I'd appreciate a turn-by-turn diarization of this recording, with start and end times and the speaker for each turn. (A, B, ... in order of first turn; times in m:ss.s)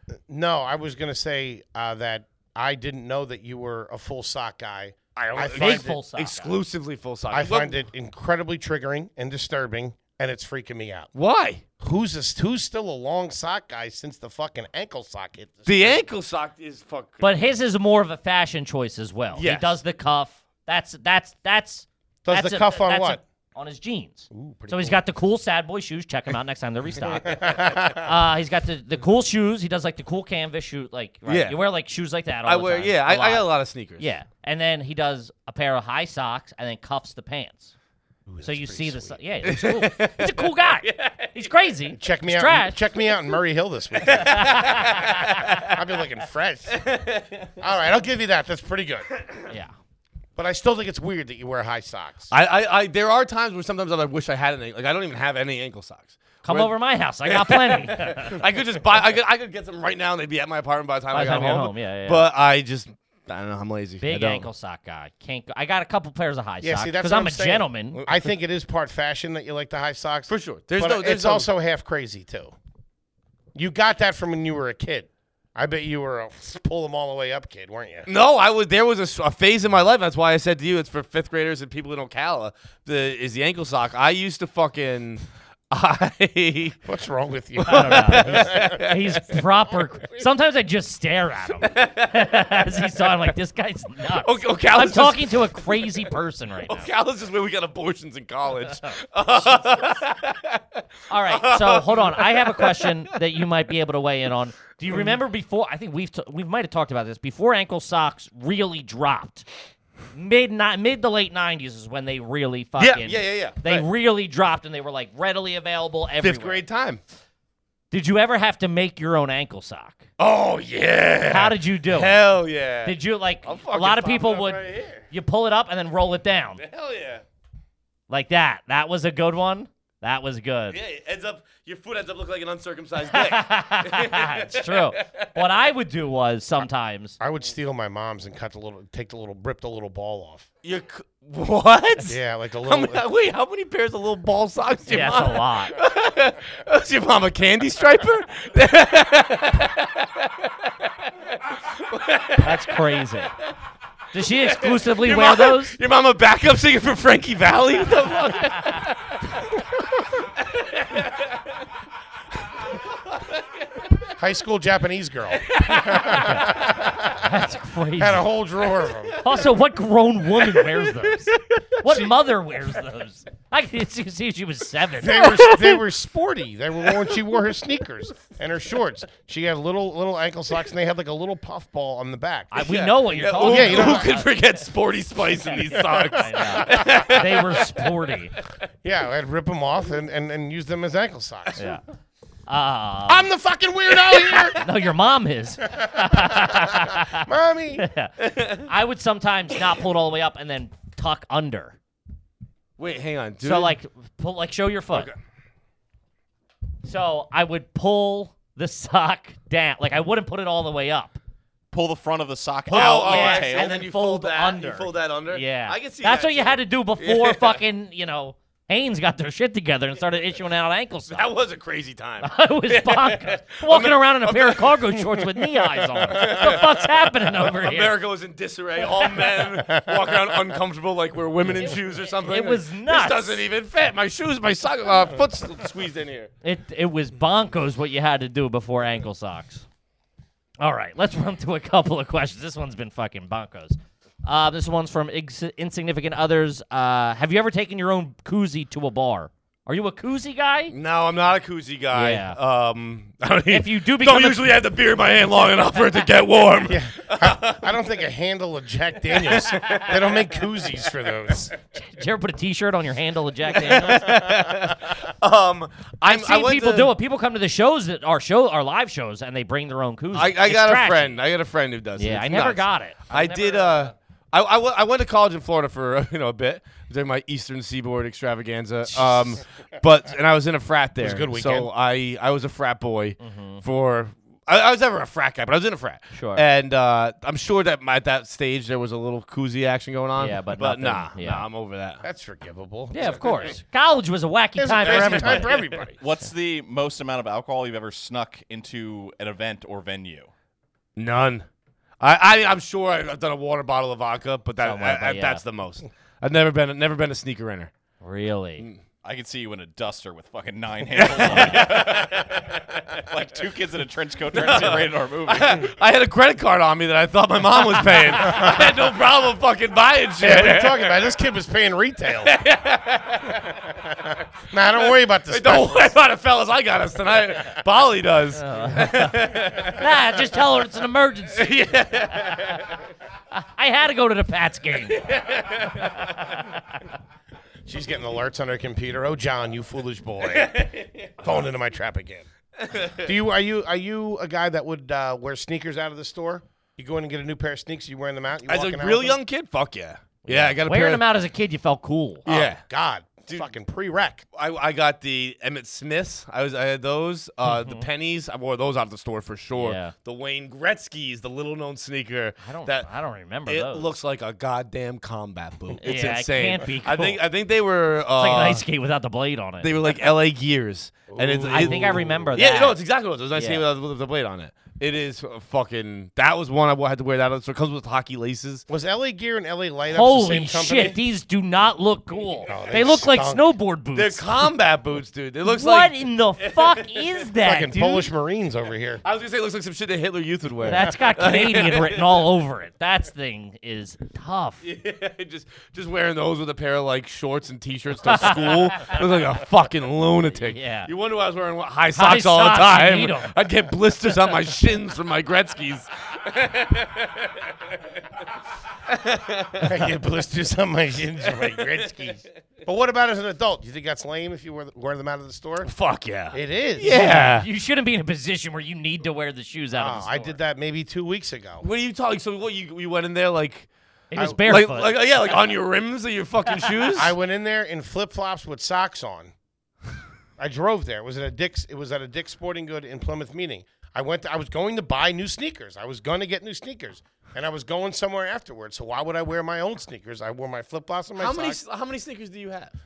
0:00.3-0:06.0 A
0:05.2-0:07.8 B
0:05.5-0:06.6 C
0:07.3-0:11.1 A
0:11.2-0:11.6 B
0:11.8-0:16.0 A
0:15.7-0:17.3 B
0:17.2-0:33.5 C
0:19.3-0:19.8 B
0:22.2-0:23.2 A
0:24.3-0:25.0 A
0:27.3-0:28.1 A
0:31.3-0:31.6 B
0:32.4-0:34.1 B
0:34.0-0:37.7 C
0:38.3-0:39.2 A
0:38.4-0:42.8 C
0:39.4-0:41.5 B
0:42.0-0:44.5 A
0:44.0-0:45.8 B
0:44.3-0:45.2 C
0:45.5-0:46.8 A
0:46.7-0:47.5 B
0:47.6-0:49.1 A
0:49.5-0:49.7 C
0:50.4-0:52.3 A
0:52.3-0:56.7 B
0:56.4-0:58.4 C
0:57.2-1:04.5 B
1:01.1-1:02.3 C
1:04.0-1:08.0 C
1:06.6-1:12.5 A
1:07.9-1:08.2 B
1:10.3-1:11.5 B
1:13.6-1:18.1 A
1:18.1-1:26.8 B
1:26.8-1:28.9 A
1:27.6-1:29.4 B
1:27.7-1:36.9 C
1:31.6-1:32.6 B
1:34.2-1:36.1 B
1:36.7-1:43.0 B
1:41.1-1:49.5 C
1:44.9-1:45.2 B
1:50.1-1:56.6 C
1:52.8-1:53.9 B
1:56.2-1:57.0 B
1:57.9-2:00.0 C
2:00.2-2:05.0 B
2:01.3-2:02.2 C
2:02.8-2:06.6 C
2:06.6-2:07.2 B
2:08.1-2:10.8 C
2:10.7-2:15.3 B
2:13.1-2:17.2 C
2:17.2-2:20.5 A
2:20.6-2:33.0 B
2:22.1-2:23.0 A
2:24.9-2:25.7 C
2:32.4-2:33.3 C
2:34.1-2:35.8 C
2:34.4-2:39.6 B
2:40.4-2:41.4 B
2:44.2-2:47.3 A
2:45.4-2:46.7 B
2:45.7-2:48.3 C
2:48.0-2:49.2 A
2:49.1-2:49.5 B
2:49.2-2:55.8 C
2:50.4-2:52.0 B
2:55.0-3:02.6 A
3:02.5-3:04.3 C
3:02.6-3:07.9 B
3:03.4-3:04.1 A
3:05.5-3:08.3 C
3:08.8-3:11.6 A
3:12.5-3:13.3 C
3:13.1-3:14.6 A
3:14.6-3:17.3 C
3:15.8-3:17.9 A
3:17.8-3:21.8 C
3:18.2-3:18.7 B
3:22.8-3:23.8 B
3:23.4-3:25.1 C
3:24.9-3:25.2 B
3:26.8-3:31.2 C
3:31.7-3:33.7 D
3:32.7-3:41.3 C
3:32.7-3:37.6 B
3:41.1-3:45.1 B
3:42.2-3:48.0 C
3:46.0-3:56.3 B
3:51.5-3:53.4 C
3:56.4-3:59.7 C
4:00.6-4:10.7 C
4:10.7-4:17.7 B
4:11.9-4:12.4 C
4:13.5-4:14.4 C
4:16.7-4:21.5 A
4:19.3-4:20.0 B
4:21.8-4:24.2 C
4:23.5-4:26.9 B
4:26.1-4:31.2 C
4:30.1-4:52.0 B
4:32.0-4:33.9 C
4:41.0-4:41.7 A
4:43.2-4:43.6 C
4:46.2-4:46.4 C
4:50.2-4:51.5 C
4:52.0-4:53.6 A
4:52.9-4:55.6 C
4:54.6-4:56.0 A
4:54.8-4:55.6 B
4:56.0-5:00.3 D
5:01.0-5:01.5 B
5:02.0-5:07.7 B
5:04.6-5:05.4 C
5:08.0-5:08.7 C
5:09.0-5:12.4 D
5:10.9-5:13.0 B
5:13.0-5:15.7 D
5:14.3-5:21.0 B
5:18.3-5:18.6 A
5:20.2-5:22.3 A
5:22.3-5:23.7 B
5:24.5-5:25.9 A
5:25.3-5:29.9 B
5:28.4-5:31.5 C
5:31.3-5:32.7 B
5:33.3-5:35.1 C
5:34.9-5:36.1 B
5:37.7-5:40.7 A
5:40.3-5:41.1 B
5:41.2-5:42.3 A
5:42.6-5:43.1 B
5:43.0-5:49.2 A
5:48.5-5:51.0 B
5:50.3-5:52.3 C
5:52.3-5:52.6 B
5:52.3-5:54.2 A
5:54.3-6:02.9 B
5:57.5-5:57.9 C
5:59.6-5:59.9 C
6:02.4-6:03.9 C
6:03.5-6:08.6 B
6:05.8-6:07.2 C
6:08.2-6:10.0 C
6:09.6-6:18.6 B
6:11.1-6:12.3 A
6:11.5-6:12.8 C
6:13.3-6:13.6 C
6:18.7-6:21.0 A
6:19.9-6:24.5 C
6:22.5-6:23.5 A
6:24.0-6:27.3 B
6:25.4-6:28.1 C
6:27.4-6:29.0 A
6:29.0-6:32.3 B
6:30.6-6:34.6 C
6:34.6-6:47.8 B
6:38.1-6:39.0 C
6:40.4-6:40.9 C
6:41.9-6:43.3 C
6:48.9-6:49.8 B
6:49.6-6:55.7 A
6:55.6-6:57.5 B
6:56.3-6:57.0 A
6:56.8-7:00.4 C
6:59.7-7:01.6 A
7:01.6-7:03.7 B
7:04.1-7:04.9 C
7:04.2-7:07.1 B
7:06.6-7:06.9 C
7:07.0-7:09.3 A
7:10.4-7:21.6 A
7:21.2-7:22.7 B